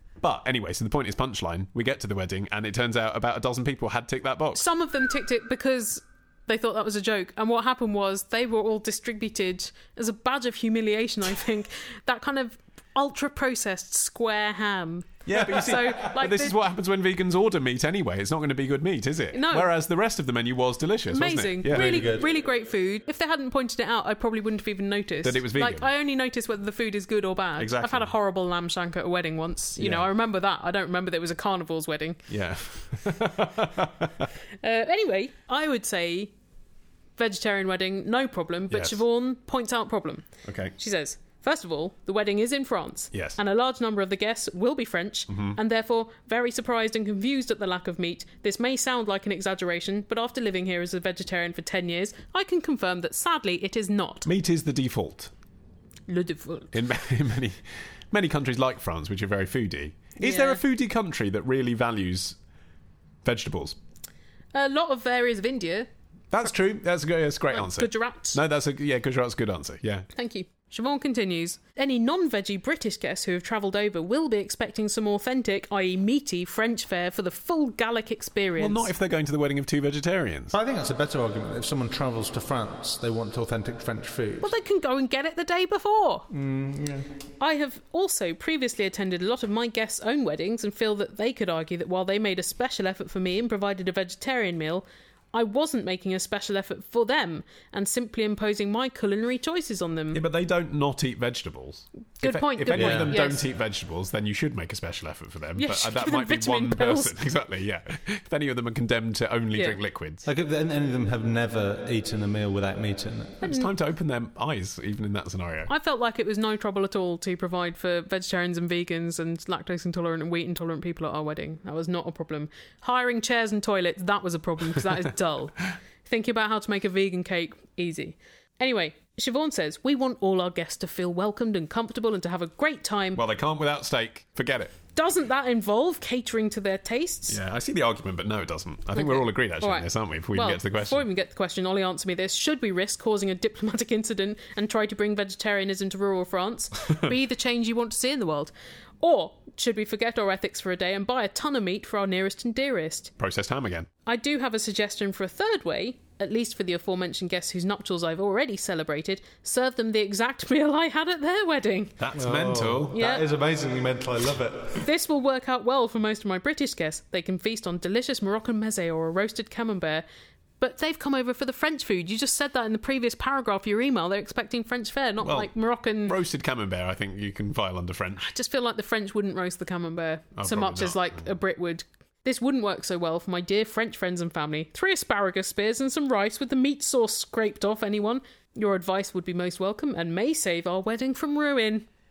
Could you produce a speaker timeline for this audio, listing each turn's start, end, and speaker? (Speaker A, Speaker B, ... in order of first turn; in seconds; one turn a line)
Speaker A: 0.2-4.7
Speaker B: 4.5-16.6
Speaker A: 15.2-21.9
Speaker B: 19.3-19.7
Speaker B: 21.1-32.2
Speaker C: 21.7-22.3
Speaker A: 25.2-25.9
Speaker A: 27.6-28.1
Speaker A: 29.8-30.1
Speaker A: 32.3-34.2
Speaker B: 34.6-36.3
Speaker B: 37.2-40.2
Speaker A: 38.7-39.0
Speaker A: 40.4-40.7
Speaker B: 40.8-54.3
Speaker A: 43.1-43.4
Speaker A: 45.3-45.6
Speaker A: 54.2-55.3
Speaker B: 56.1-56.7
Speaker A: 56.7-62.4
Speaker B: 60.2-60.6
Speaker A: 63.2-63.8
Speaker B: 64.5-65.9
Speaker A: 66.3-70.1
Speaker B: 67.5-68.4
Speaker B: 70.1-78.9
Speaker A: 78.6-80.5
Speaker C: 80.5-84.5
Speaker B: 84.4-86.3
Speaker C: 86.3-87.0
Speaker B: 87.4-100.2
Speaker A: 100.1-110.3
Speaker B: 102.2-103.4
Speaker C: 102.7-103.2
Speaker B: 105.6-107.2
Speaker B: 109.5-109.8
Speaker C: 110.2-113.4
Speaker A: 113.4-115.7
Speaker B: 113.4-113.7
Speaker B: 115.7-133.2
Speaker A: 133.1-134.8
Speaker B: 134.9-137.4
Speaker A: 137.3-141.0
Speaker B: 138.9-153.1
Speaker A: 153.2-153.9
Speaker B: 154.1-162.0
Speaker A: 162.0-163.0
Speaker C: 162.1-164.8
Speaker B: 162.9-163.2
Speaker B: 164.8-170.0
Speaker B: 170.6-176.2
Speaker A: 175.2-178.3
Speaker B: 178.2-191.9
Speaker A: 180.3-181.3